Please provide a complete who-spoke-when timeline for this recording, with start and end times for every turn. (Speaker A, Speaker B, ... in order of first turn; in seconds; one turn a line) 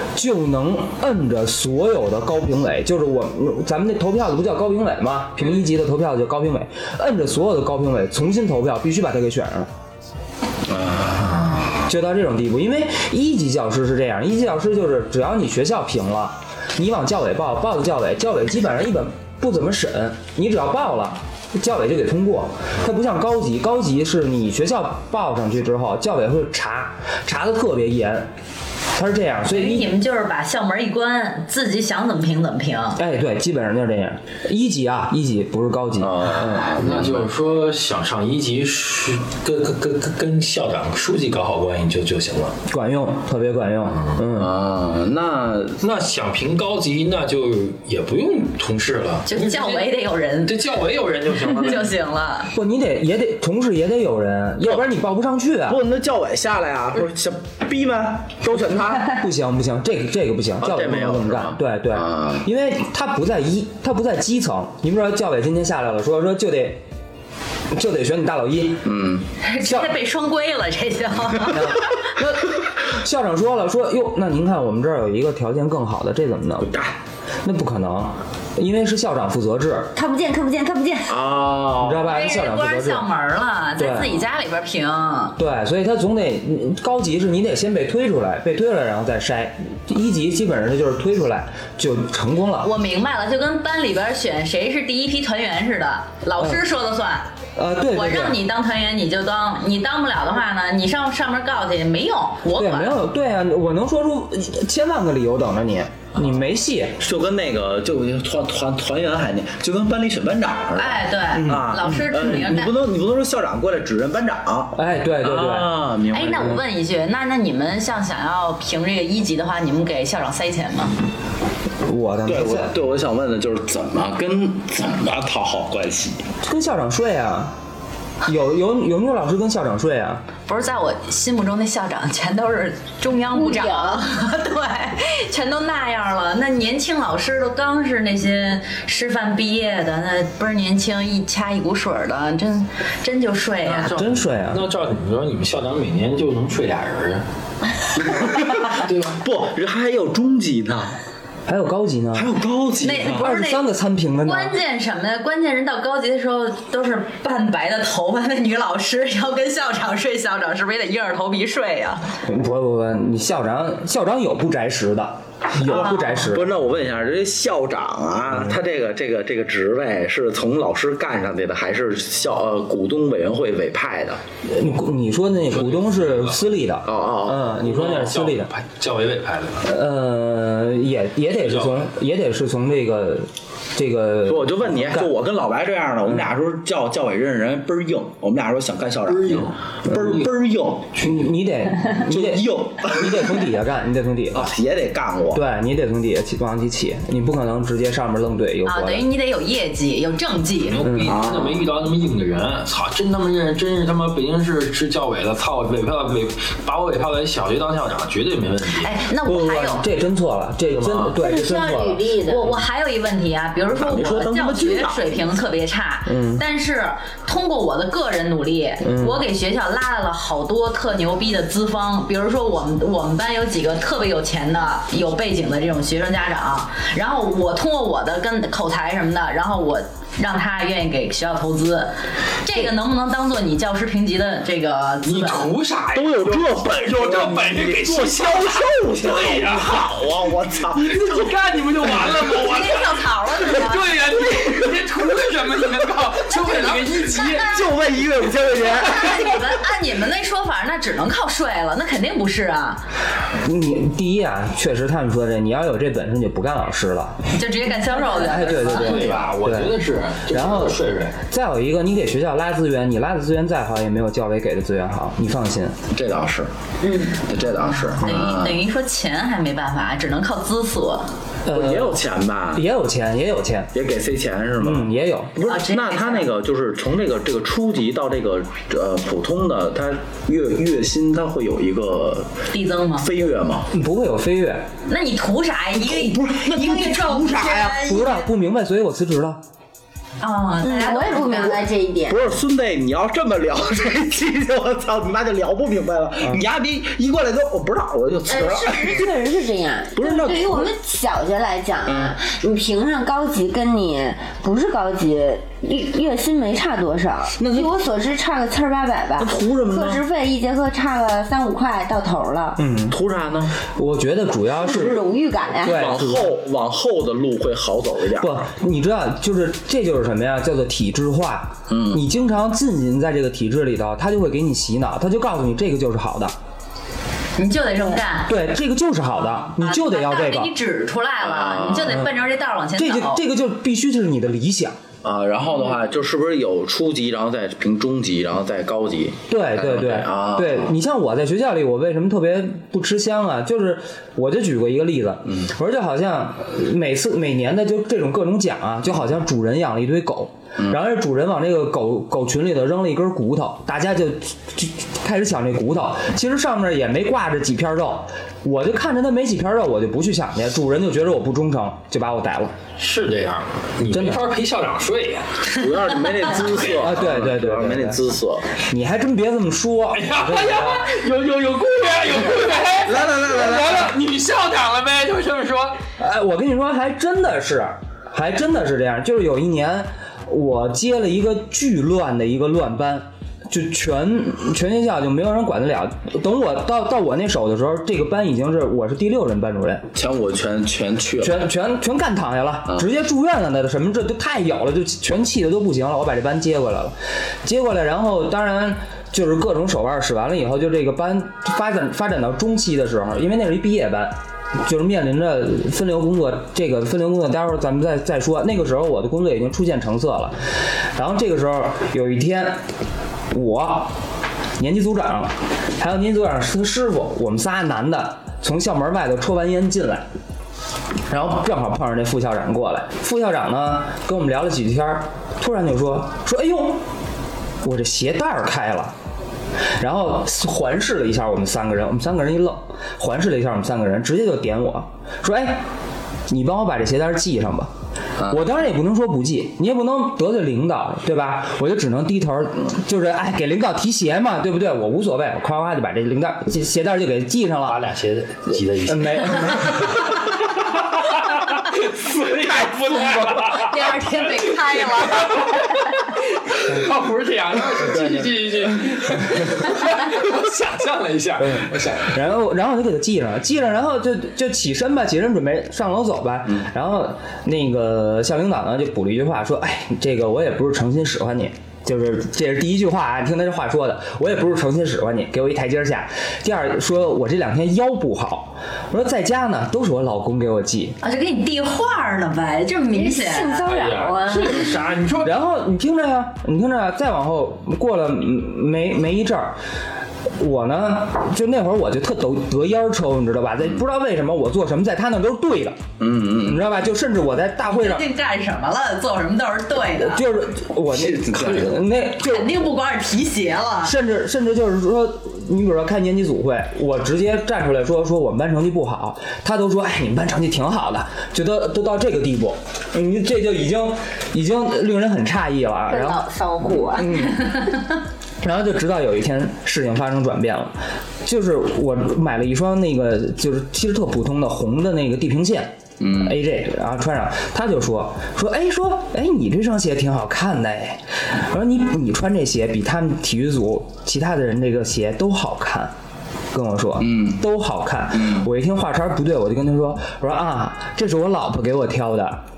Speaker A: 0.1-9.7
Speaker B: 10.7-11.9
Speaker A: 11.9-28.3
Speaker A: 28.9-29.9
Speaker C: 29.5-33.0
Speaker A: 33.0-36.8
Speaker B: 36.0-37.3
Speaker D: 36.8-42.6
Speaker A: 42.7-44.5
Speaker B: 44.3-45.8
Speaker D: 45.8-49.9
Speaker C: 49.3-50.6
Speaker D: 50.5-51.9
Speaker C: 51.6-52.5
Speaker A: 52.5-55.8
Speaker B: 55.7-59.1
Speaker A: 59.0-66.8
Speaker B: 60.6-62.5
Speaker A: 67.7-68.9
Speaker B: 68.8-69.2
Speaker C: 69.4-71.7
Speaker A: 69.6-69.9
Speaker A: 71.5-76.7
Speaker B: 76.6-77.0
Speaker A: 77.4-79.9
Speaker E: 80.0-81.2
Speaker B: 81.1-82.1
Speaker A: 81.8-83.1
Speaker C: 82.0-85.3
Speaker A: 83.8-84.1
Speaker A: 85.4-92.7
Speaker C: 92.6-97.3
Speaker A: 97.6-98.4
Speaker C: 97.9-103.0
Speaker A: 102.5-107.0
Speaker B: 107.0-116.6
Speaker C: 110.8-112.7
Speaker A: 111.3-111.9
Speaker A: 114.8-115.8
Speaker C: 116.1-121.0
Speaker A: 121.8-122.7
Speaker B: 122.3-126.2
Speaker A: 126.4-127.5
Speaker A: 128.2-130.2
Speaker C: 130.5-143.9
Speaker E: 133.3-134.1
Speaker D: 143.7-147.2
Speaker A: 143.9-144.7
Speaker B: 148.0-151.0
Speaker D: 148.7-149.2
Speaker A: 151.5-152.3
Speaker B: 152.1-153.2
Speaker C: 152.8-153.7
Speaker A: 153.0-154.6
Speaker C: 154.2-162.0
Speaker A: 162.3-166.5
Speaker B: 165.6-174.2
Speaker C: 165.7-166.3
Speaker A: 168.3-168.6
Speaker A: 174.4-178.5
Speaker D: 175.5-176.4
Speaker B: 176.8-177.4
Speaker D: 177.5-179.7
Speaker A: 179.6-185.1
Speaker D: 181.4-181.8
Speaker B: 184.3-191.0
Speaker D: 189.1-190.3
Speaker D: 190.9-191.2
Speaker A: 191.0-194.5
Speaker B: 192.1-193.4
Speaker B: 194.3-195.4
Speaker A: 195.3-199.1
Speaker C: 198.7-200.8
Speaker D: 200.7-208.9
Speaker A: 200.8-201.2
Speaker B: 201.0-201.7
Speaker C: 208.8-209.8
Speaker A: 209.2-212.0
Speaker E: 211.1-212.5
Speaker C: 212.3-235.5
Speaker B: 213.7-215.0
Speaker A: 216.1-216.4
Speaker A: 218.8-219.2
Speaker D: 235.0-239.9
Speaker B: 235.9-241.3
Speaker D: 240.6-247.6
Speaker C: 242.3-243.9
Speaker C: 246.3-247.6
Speaker B: 247.4-249.2
Speaker C: 248.6-252.8
Speaker A: 253.4-257.3
Speaker C: 257.3-258.9
Speaker A: 258.0-259.8
Speaker D: 258.6-261.2
Speaker B: 258.9-259.3
Speaker A: 260.3-265.8
Speaker B: 265.9-266.5
Speaker C: 266.8-271.1
Speaker B: 267.2-268.6
Speaker A: 271.5-272.0
Speaker B: 271.5-272.7
Speaker A: 272.5-273.7
Speaker B: 273.7-282.3
Speaker A: 274.6-275.4
Speaker C: 275.4-276.3
Speaker C: 282.5-283.1
Speaker B: 283.0-283.7
Speaker A: 283.7-284.7
Speaker C: 284.9-288.2
Speaker B: 285.8-287.9
Speaker A: 287.9-289.4
Speaker C: 290.2-291.6
Speaker E: 290.6-292.2
Speaker B: 292.1-299.1
Speaker E: 298.3-312.6
Speaker B: 300.0-300.7
Speaker B: 301.9-302.1
Speaker B: 307.4-307.7
Speaker B: 309.2-310.0
Speaker A: 312.6-313.0
Speaker B: 312.9-313.6
Speaker A: 313.7-315.0
Speaker E: 314.6-315.9
Speaker A: 315.6-316.4
Speaker B: 315.7-318.5
Speaker A: 318.2-326.4
Speaker B: 321.7-322.0
Speaker C: 327.4-328.3
Speaker A: 328.3-330.5
Speaker C: 329.5-333.2
Speaker B: 331.2-332.1
Speaker A: 332.8-334.8
Speaker B: 335.0-340.7
Speaker A: 339.3-362.6
Speaker D: 362.8-365.5
Speaker A: 363.9-364.2
Speaker B: 365.4-368.5
Speaker A: 366.8-368.0
Speaker A: 368.7-370.9
Speaker D: 369.9-375.8
Speaker B: 372.9-373.9
Speaker A: 376.0-389.9
Speaker B: 389.9-391.4
Speaker A: 391.2-410.4
Speaker A: 410.9-412.6
Speaker A: 413.3-413.9
Speaker A: 414.6-420.1
Speaker A: 421.1-426.8
Speaker A: 427.6-428.9
Speaker A: 429.8-435.6
Speaker A: 436.3-437.7
Speaker A: 438.3-447.9
Speaker D: 447.7-462.2
Speaker A: 448.5-450.1
Speaker C: 453.5-455.6
Speaker A: 457.8-458.4
Speaker A: 461.4-481.0
Speaker C: 481.0-483.7
Speaker E: 482.9-484.8
Speaker D: 483.7-485.4
Speaker A: 485.2-489.6
Speaker A: 490.4-495.8
Speaker B: 496.0-496.6
Speaker A: 496.4-498.1
Speaker C: 497.6-500.2
Speaker A: 500.0-502.6
Speaker B: 500.9-501.8
Speaker C: 502.2-503.9
Speaker A: 503.8-516.3
Speaker E: 515.9-517.3
Speaker A: 516.9-517.8
Speaker A: 518.4-535.9
Speaker B: 526.0-526.4
Speaker A: 536.5-542.4
Speaker B: 537.0-537.4
Speaker B: 538.1-538.5